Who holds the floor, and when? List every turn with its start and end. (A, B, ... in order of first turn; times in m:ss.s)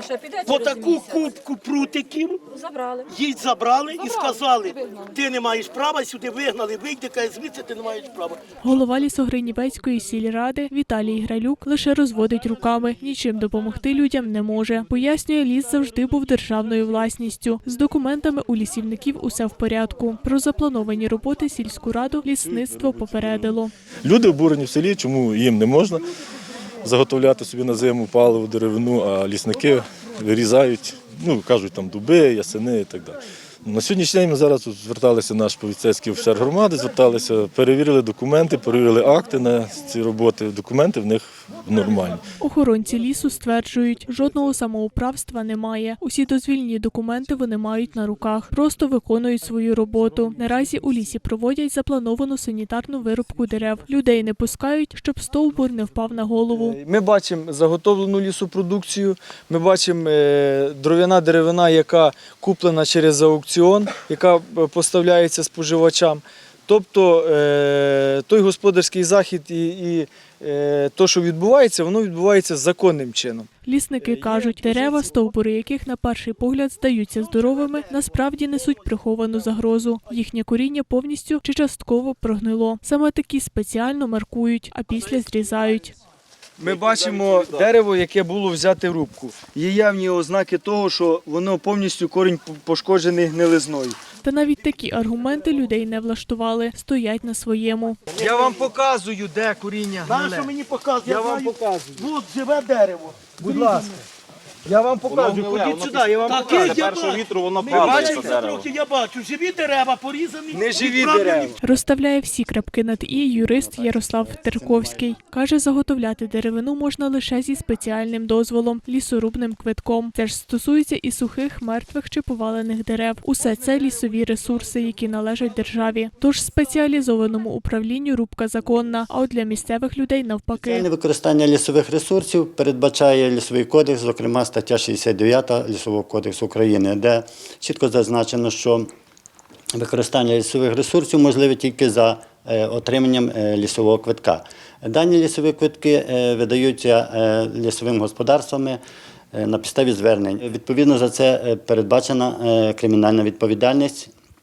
0:00.3-0:02.4 A
0:03.1-0:08.4 A
0:08.6-0:23.7 B
0:24.0-0:26.1 C
0:26.8-0:42.2 C
0:42.4-0:56.8 B
0:56.5-1:13.5 D
1:13.6-1:26.0 B
1:14.0-1:15.1 D
1:26.6-1:34.0 D
1:34.2-1:38.0 B
1:38.2-1:40.5 D
1:40.0-1:43.9 A
1:41.0-1:42.0 D
1:43.4-1:44.0 D
1:44.7-1:45.5 D
1:45.1-1:51.5 A
1:46.3-1:46.8 D
1:47.6-1:48.3 D
1:50.5-1:51.6 D
1:51.6-2:10.8 B
2:10.6-2:18.9 E
2:19.8-2:28.8 E
2:29.3-2:34.1 E